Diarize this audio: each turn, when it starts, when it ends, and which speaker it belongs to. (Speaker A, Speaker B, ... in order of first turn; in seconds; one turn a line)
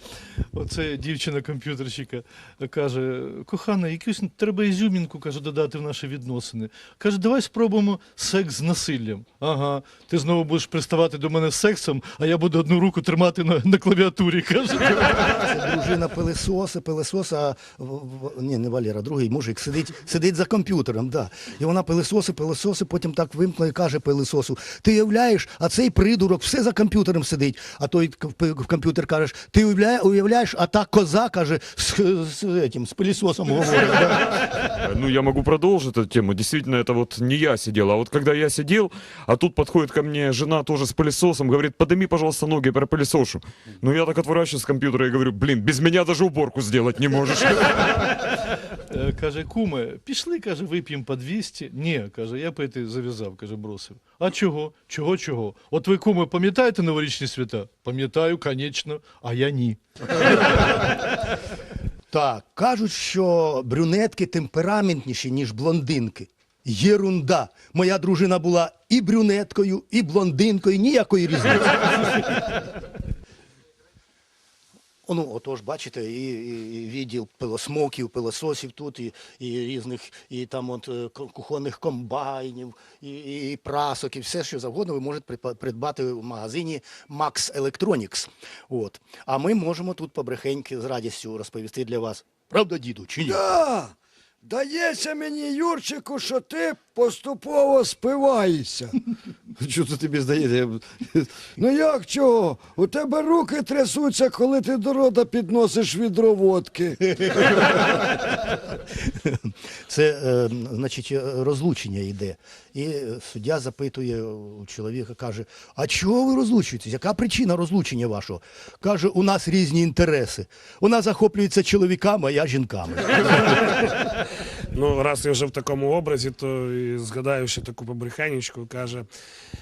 Speaker A: 0.5-15.4
Speaker B: 15.3-34.7
Speaker C: 34.7-48.1
Speaker A: 48.9-59.8
Speaker B: 60.2-61.0
Speaker B: 62.1-72.6
Speaker B: 75.1-93.4
Speaker D: 93.2-99.0
Speaker D: 99.6-107.7
Speaker B: 107.3-123.9
Speaker E: 124.7-129.1